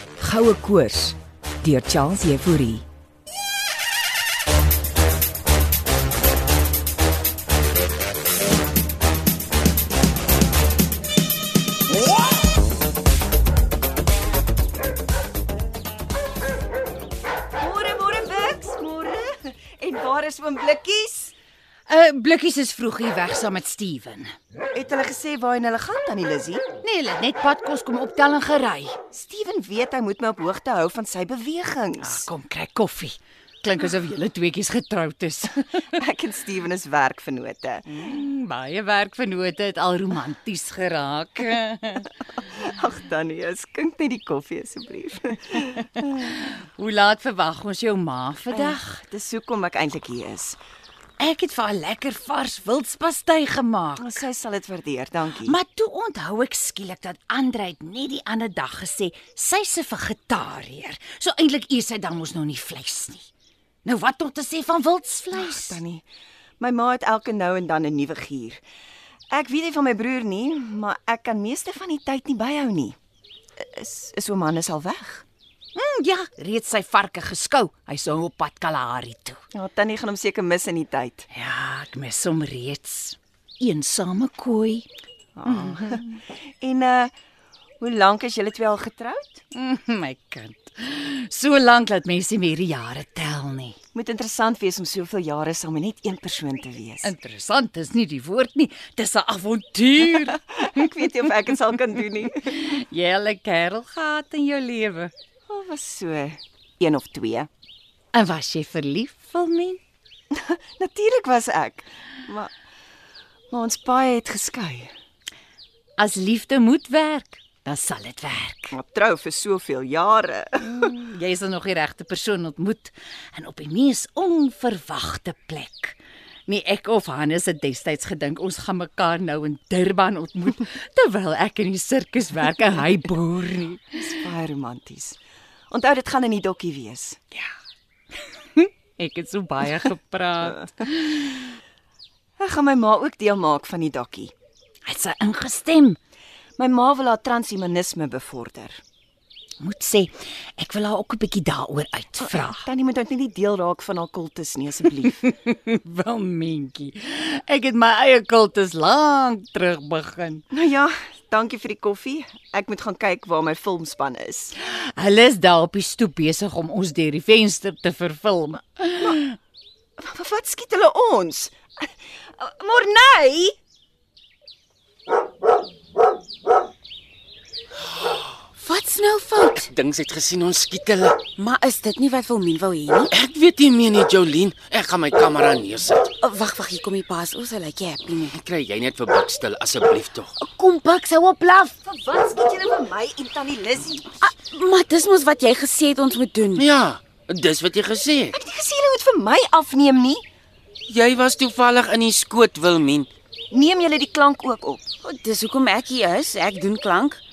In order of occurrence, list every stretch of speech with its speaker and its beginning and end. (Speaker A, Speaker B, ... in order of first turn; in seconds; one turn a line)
Speaker A: 0.2-2.8
Speaker B: 17.6-21.3
Speaker C: 21.9-24.3
Speaker B: 24.7-26.7
Speaker C: 26.8-29.0
Speaker B: 29.1-32.3
Speaker C: 32.0-35.6
Speaker B: 36.0-38.0
Speaker C: 37.9-42.1
Speaker B: 42.5-45.8
Speaker C: 46.2-48.9
Speaker B: 48.5-50.6
Speaker C: 51.2-54.2
Speaker B: 54.0-55.5
Speaker C: 55.4-63.3
Speaker C: 63.8-65.8
Speaker B: 65.3-66.0
Speaker B: 66.6-68.6
Speaker B: 69.3-73.0
Speaker B: 73.6-75.2
Speaker C: 75.7-79.4
Speaker B: 79.5-81.3
Speaker C: 81.3-84.9
Speaker B: 85.3-87.1
Speaker C: 85.5-86.0
Speaker B: 87.8-89.4
Speaker C: 89.5-93.8
Speaker B: 93.9-97.1
Speaker C: 97.0-100.4
Speaker B: 100.5-102.6
Speaker C: 102.5-105.1
Speaker B: 105.5-107.5
Speaker C: 108.1-109.8
Speaker B: 110.3-112.5
Speaker B: 113.5-114.9
Speaker C: 116.0-118.8
Speaker B: 118.7-120.8
Speaker C: 120.6-134.1
Speaker B: 134.0-135.2
Speaker B: 135.7-137.2
Speaker C: 138.5-141.4
Speaker B: 142.4-144.3
Speaker C: 144.8-146.0
Speaker B: 146.6-148.8
Speaker C: 149.6-152.6
Speaker B: 152.2-155.2
Speaker C: 155.2-160.4
Speaker B: 160.5-164.5
Speaker C: 164.6-169.2
Speaker B: 170.0-173.6
Speaker D: 178.6-179.7
Speaker E: 179.6-181.2
Speaker D: 181.3-183.1
Speaker E: 183.1-186.1
Speaker D: 186.2-188.4
Speaker E: 188.3-190.3
Speaker D: 190.4-191.8
Speaker B: 191.8-194.1
Speaker D: 194.2-196.7
Speaker E: 196.6-198.3
Speaker B: 198.3-200.2
Speaker E: 200.9-203.1
Speaker B: 203.5-204.8
Speaker D: 205.0-207.2